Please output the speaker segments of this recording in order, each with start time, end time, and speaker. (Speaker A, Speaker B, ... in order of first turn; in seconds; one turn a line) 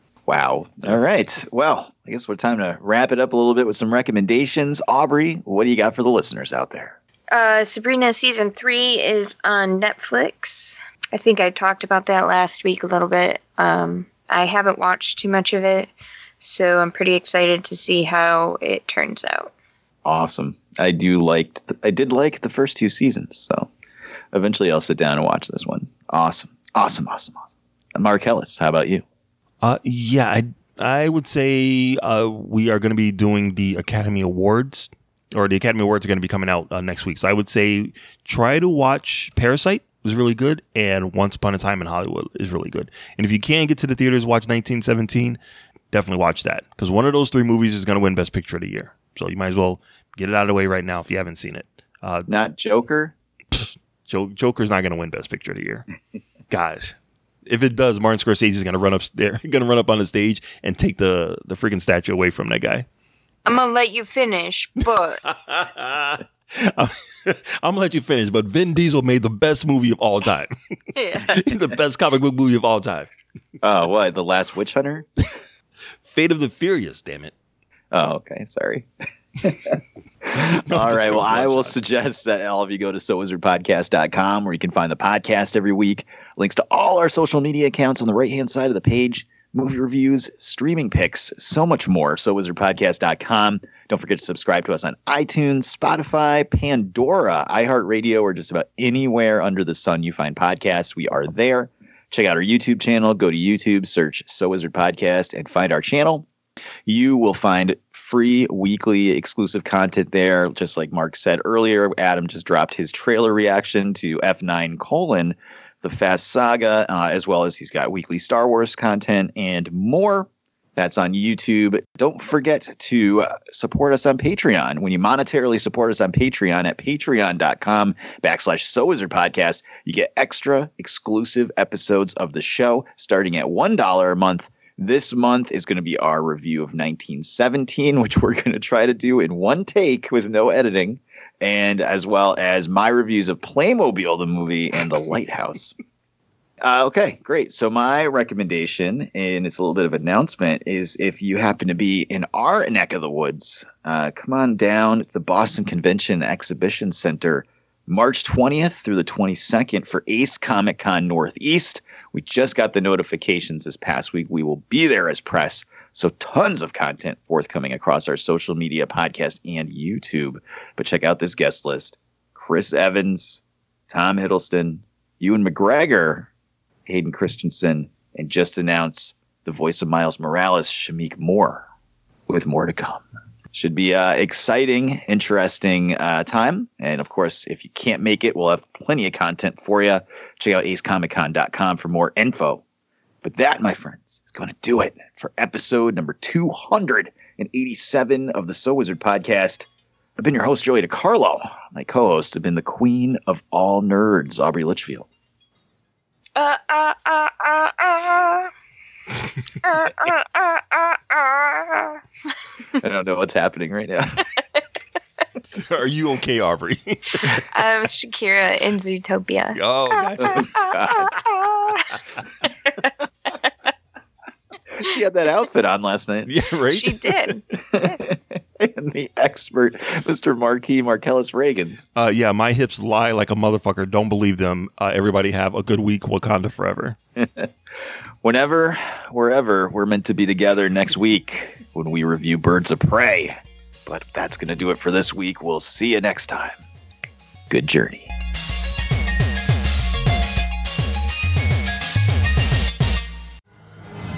Speaker A: 0.2-7.0
Speaker B: 7.3-19.5
Speaker A: 20.0-23.7
Speaker A: 24.3-29.0
Speaker C: 29.6-45.4
Speaker C: 45.9-52.3
Speaker A: 52.3-53.1
Speaker C: 53.5-55.9
Speaker C: 56.5-56.9
Speaker C: 57.5-62.9
Speaker B: 63.5-65.2
Speaker C: 65.2-70.5
Speaker B: 70.9-71.4
Speaker C: 71.3-73.1
Speaker A: 73.6-75.1
Speaker C: 76.1-77.3
Speaker A: 77.9-78.9
Speaker A: 79.4-106.2
Speaker C: 80.3-81.7
Speaker A: 106.8-145.7
Speaker A: 146.6-176.3
Speaker A: 176.8-181.6
Speaker A: 182.3-192.6
Speaker A: 193.2-205.1
Speaker B: 206.3-208.5
Speaker B: 209.6-212.0
Speaker A: 212.8-214.3
Speaker C: 215.4-217.4
Speaker B: 217.2-222.9
Speaker C: 219.5-220.5
Speaker A: 220.2-221.1
Speaker A: 224.7-226.3
Speaker C: 226.3-227.3
Speaker B: 226.7-227.9
Speaker A: 227.7-231.9
Speaker C: 231.9-237.0
Speaker A: 237.2-237.5
Speaker A: 238.2-246.6
Speaker A: 247.5-248.1